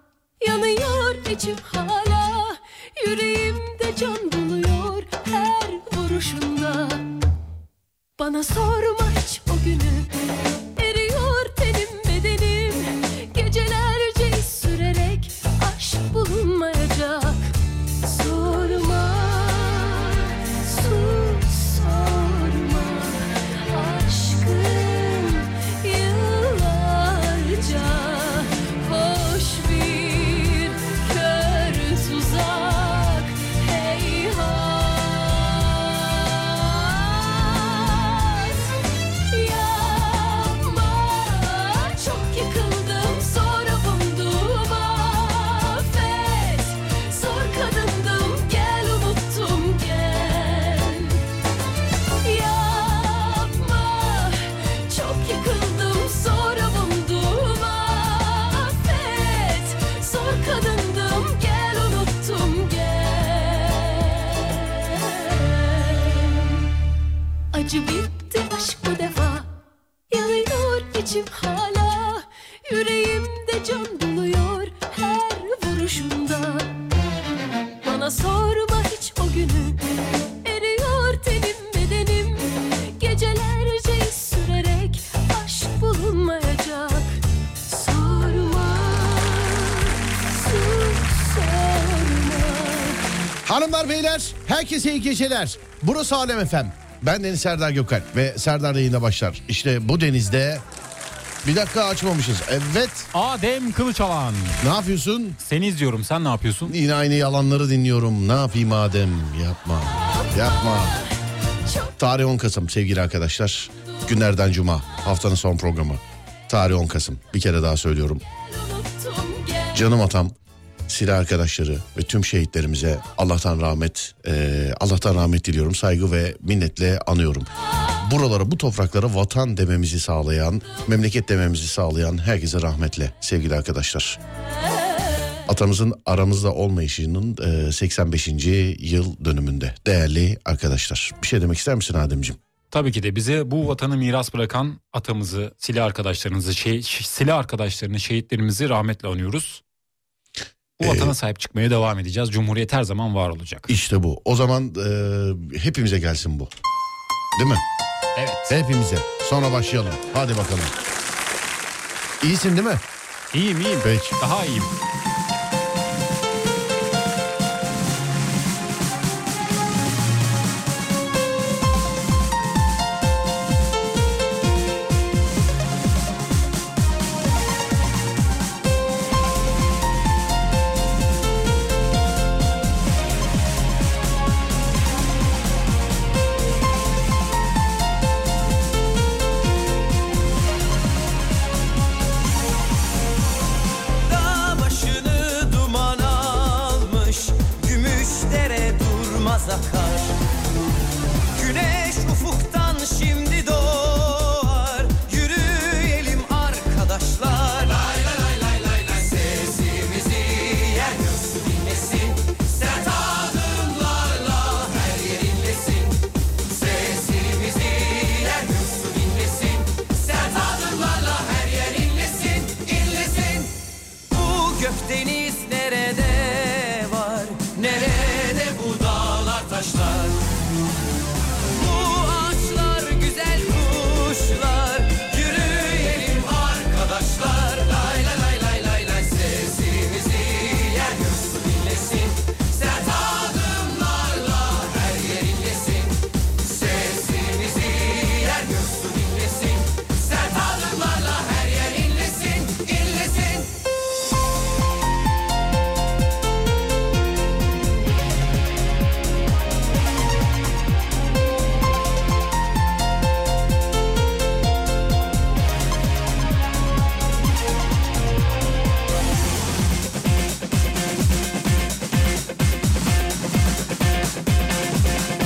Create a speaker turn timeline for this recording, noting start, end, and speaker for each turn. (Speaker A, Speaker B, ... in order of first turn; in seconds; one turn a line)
Speaker A: 0.4-7.1
Speaker A: 8.2-10.1
Speaker A: 10.8-17.5
Speaker A: 18.0-38.7
Speaker A: 39.3-51.2
Speaker A: 52.2-66.5
Speaker A: 67.5-69.5
Speaker A: 70.1-76.7
Speaker A: 77.8-79.8
Speaker A: 80.4-87.2
Speaker A: 87.7-93.0
Speaker B: 93.5-100.6
Speaker B: 101.4-103.1
Speaker C: 103.1-104.6
Speaker B: 104.6-105.4
Speaker C: 105.4-106.7
Speaker B: 106.6-111.0
Speaker B: 112.0-118.2
Speaker A: 118.5-119.7
Speaker B: 119.7-120.3
Speaker B: 120.9-134.2
Speaker B: 135.4-142.4
Speaker C: 142.7-149.6
Speaker C: 150.8-153.7
Speaker B: 150.8-151.1
Speaker B: 153.7-156.5
Speaker B: 157.4-157.6
Speaker C: 158.2-158.5
Speaker B: 158.5-160.7
Speaker B: 162.2-162.8
Speaker C: 163.3-164.7
Speaker B: 163.8-164.2
Speaker D: 194.1-200.1
Speaker D: 201.3-215.9
Speaker D: 216.7-223.5
Speaker D: 224.1-230.2
Speaker D: 231.6-242.1
Speaker D: 242.6-245.5
Speaker D: 251.7-252.6